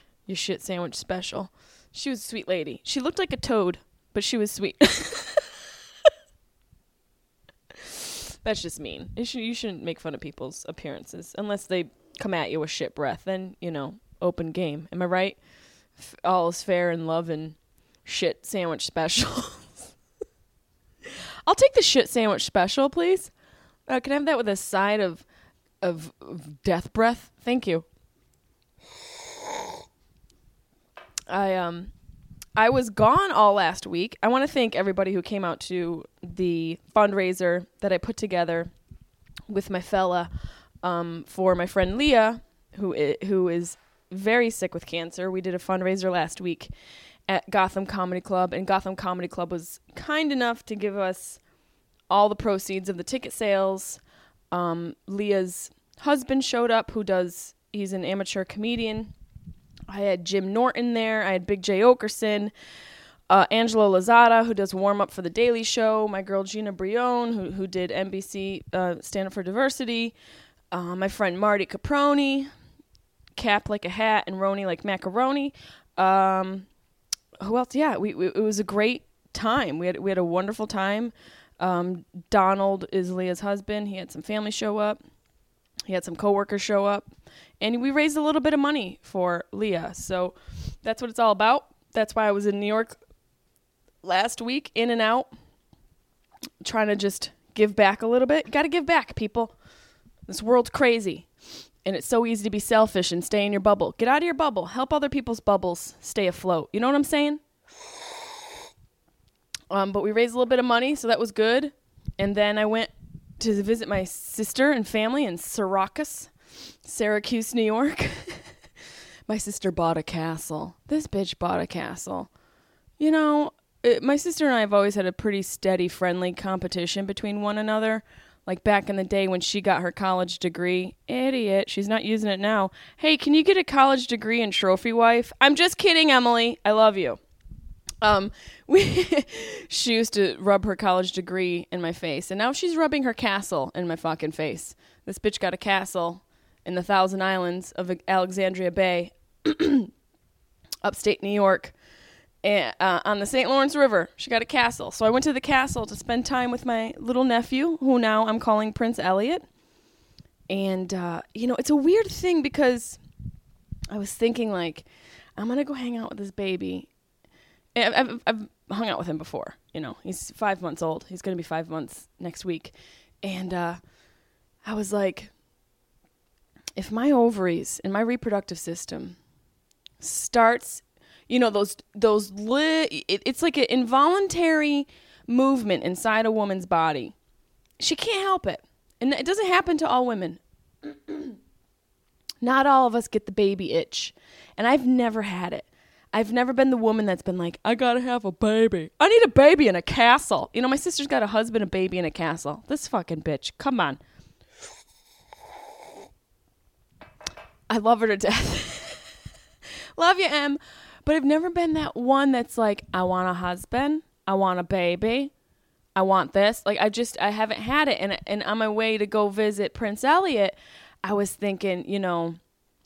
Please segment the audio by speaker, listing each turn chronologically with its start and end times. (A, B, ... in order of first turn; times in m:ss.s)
0:00.3-0:05.5 A
0:07.8-0:15.4 A
0:16.0-0:19.9 A
0:21.5-0:23.3 A
0:23.9-0:25.2 A
0:25.8-0:27.9 A
0:31.3-0:31.9 A
0:32.6-0:38.7 A
0:39.5-0:40.3 A
0:40.8-0:46.7 A
0:47.3-0:51.4 A
0:52.1-0:54.0 A
0:54.5-0:59.1 A
0:59.9-1:02.5 A
1:03.3-1:10.2 A
1:10.7-1:12.5 A
1:13.4-1:16.7 A
1:17.4-1:25.0 A
1:25.9-1:27.1 A
1:27.6-1:33.0 A
1:34.0-1:35.3 A
1:36.6-1:39.6 A
1:40.3-1:41.3 A
1:41.8-1:47.4 A
1:49.7-1:56.3 A
1:56.8-1:58.4 A
1:59.3-2:02.3 A
2:03.0-2:17.2 A
2:18.0-2:29.9 A
2:30.8-2:31.7 A
2:32.4-2:39.4 A
2:40.5-2:43.0 A
2:43.9-2:44.9 A
2:45.4-2:46.9 A
2:47.8-2:53.8 A
2:54.6-2:55.3 A
2:56.8-2:59.2 A
3:00.0-3:07.1 A
3:07.8-3:11.4 A
3:12.4-3:24.0 A
3:27.7-3:29.0 A
3:30.0-3:35.3 A
3:36.0-3:42.4 A